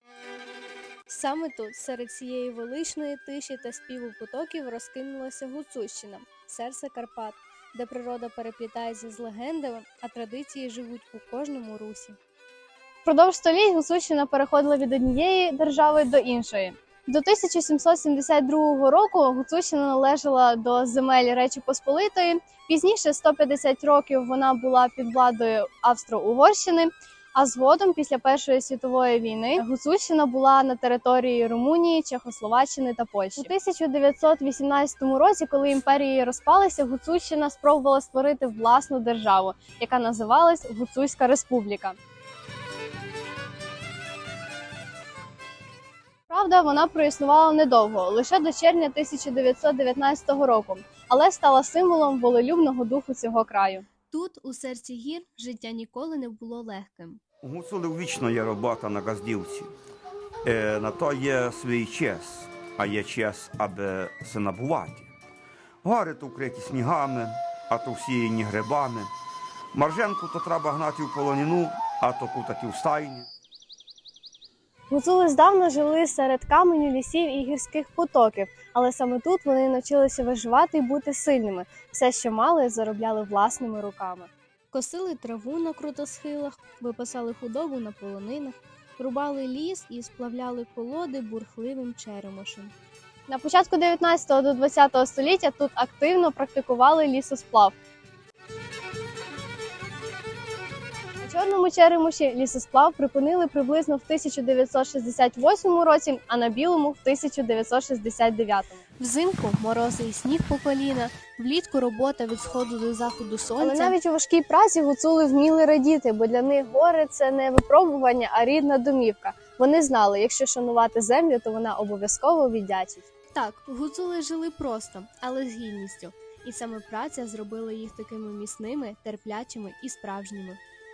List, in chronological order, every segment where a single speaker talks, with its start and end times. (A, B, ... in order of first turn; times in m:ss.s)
0:01.1-0:12.2 A
0:13.1-0:41.9 B
0:18.2-0:18.5 A
0:21.4-0:24.0 A
0:24.5-0:25.1 A
0:26.0-0:26.7 A
0:32.2-0:33.5 A
0:37.5-0:38.2 A
0:39.5-0:40.7 A
0:41.4-0:41.8 A
0:46.3-0:53.8 B
0:46.4-0:46.7 A
0:48.1-0:48.7 A
0:51.0-0:51.4 A
0:54.1-0:57.2 A
0:57.4-0:59.7 C
1:00.5-1:05.1 C
1:05.8-1:09.1 C
1:09.7-1:13.3 C
1:14.9-1:20.6 A
1:15.4-1:24.3 B
1:21.2-1:22.0 A
1:24.7-1:32.7 A
1:33.3-1:37.7 B
1:41.2-1:48.8 B
1:49.0-1:54.0 A
1:53.6-2:03.1 B
2:03.3-2:10.6 A